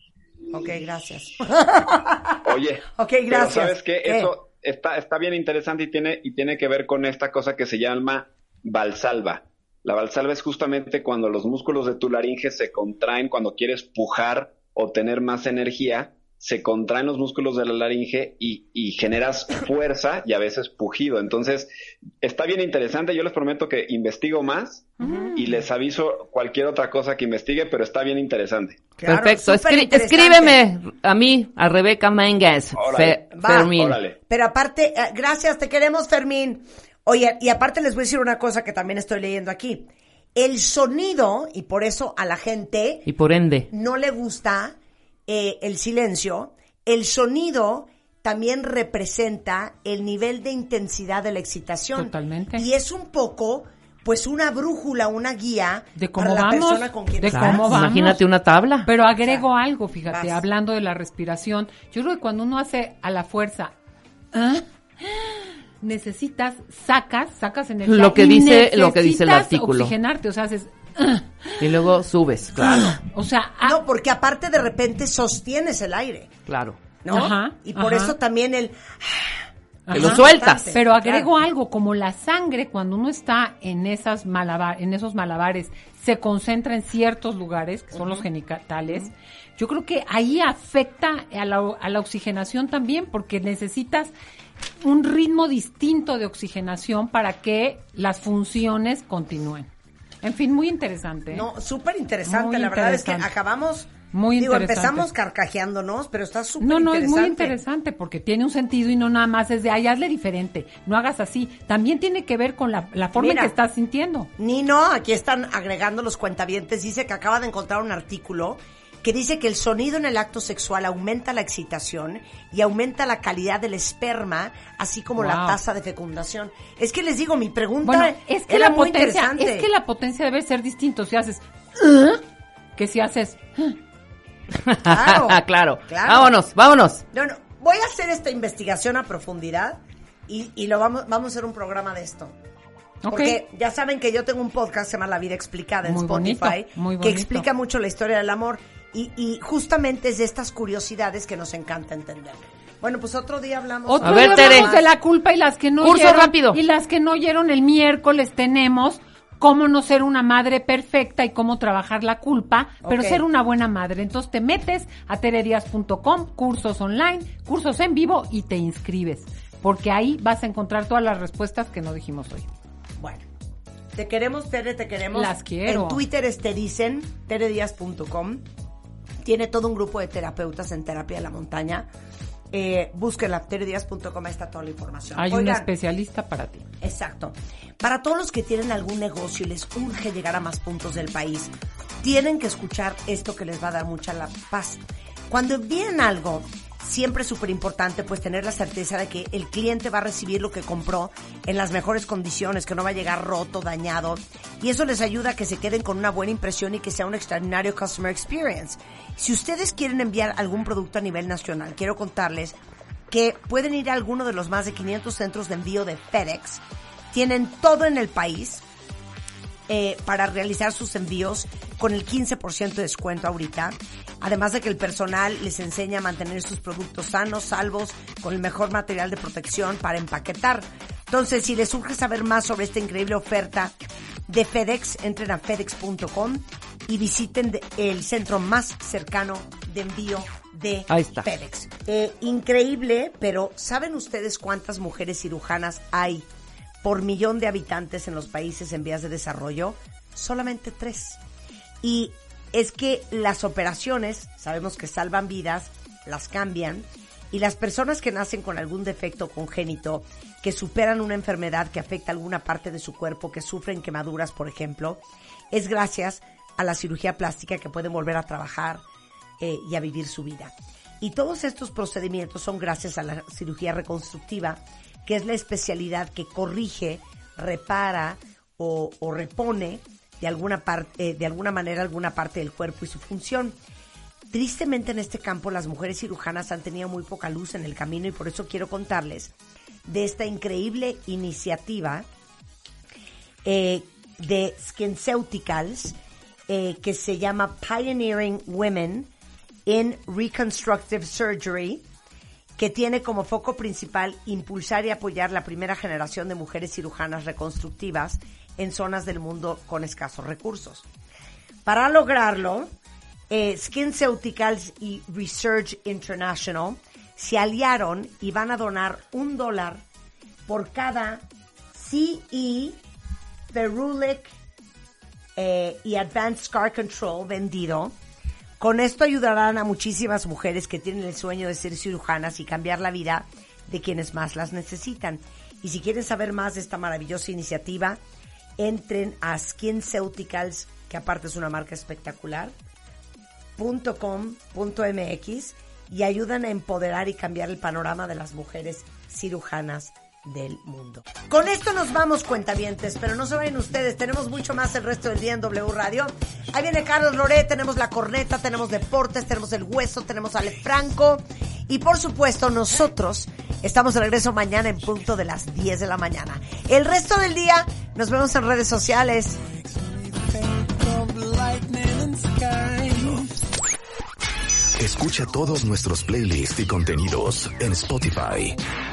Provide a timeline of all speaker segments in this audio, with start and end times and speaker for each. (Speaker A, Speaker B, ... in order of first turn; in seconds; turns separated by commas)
Speaker A: 0.5-2.4, Speaker B: 2.5-21.7, Speaker A: 2.9-4.3, Speaker B: 22.2-28.9, Speaker A: 25.0-25.4, Speaker C: 25.0-25.3, Speaker A: 29.0-30.6, Speaker D: 29.1-34.0, Speaker B: 32.8-33.2, Speaker A: 33.3-43.1, Speaker B: 33.8-34.2, Speaker D: 43.1-43.7, Speaker A: 43.7-44.8, Speaker A: 45.3-57.7, Speaker C: 52.0-52.7, Speaker C: 56.0-58.2, Speaker D: 57.3-58.9, Speaker C: 58.9-63.7, Speaker A: 60.1-60.4, Speaker C: 64.3-71.6, Speaker D: 67.9-69.9, Speaker D: 71.6-73.0, Speaker C: 72.6-73.8, Speaker A: 72.7-72.9, Speaker A: 73.6-76.3, Speaker D: 76.5-76.8, Speaker A: 77.0-79.4, Speaker C: 77.1-78.2, Speaker C: 79.9-94.1, Speaker D: 79.9-80.8, Speaker A: 79.9-81.3, Speaker A: 87.9-88.2, Speaker C: 94.8-99.7, Speaker C: 100.2-101.5, Speaker A: 101.3-107.6, Speaker C: 102.3-103.3, Speaker C: 104.1-105.1, Speaker C: 106.6-114.3, Speaker A: 113.2-113.5, Speaker A: 114.4-129.7, Speaker C: 125.2-125.6, Speaker C: 127.8-132.2, Speaker C: 132.8-133.8, Speaker D: 134.6-137.0, Speaker A: 134.8-136.3, Speaker A: 137.1-142.3, Speaker C: 143.0-143.4, Speaker A: 143.1-154.9, Speaker C: 145.8-147.5, Speaker C: 153.9-172.5, Speaker D: 154.0-154.7, Speaker D: 155.8-156.6, Speaker A: 162.8-163.2, Speaker A: 173.0-173.3, Speaker A: 174.0-178.4, Speaker C: 175.1-176.1, Speaker A: 179.2-181.9, Speaker A: 182.5-185.7, Speaker C: 185.2-186.7, Speaker A: 186.8-212.6, Speaker A: 213.1-218.6, Speaker A: 219.7-233.8, Speaker A: 234.3-246.3, Speaker D: 240.9-241.3, Speaker A: 246.8-251.2, Speaker A: 251.8-268.8, Speaker A: 269.4-283.6, Speaker A: 284.3-289.3, Speaker A: 289.9-292.1, Speaker A: 293.4-296.0, Speaker A: 296.5-299.1, Speaker A: 299.7-301.8, Speaker A: 302.6-310.9, Speaker A: 311.7-312.7, Speaker A: 313.3-319.8, Speaker A: 320.5-322.8, Speaker A: 323.5-324.3, Speaker A: 325.4-328.0, Speaker A: 328.6-338.0, Speaker A: 338.6-342.5, Speaker A: 343.6-369.4, Speaker E: 369.6-373.4, Speaker F: 374.8-378.6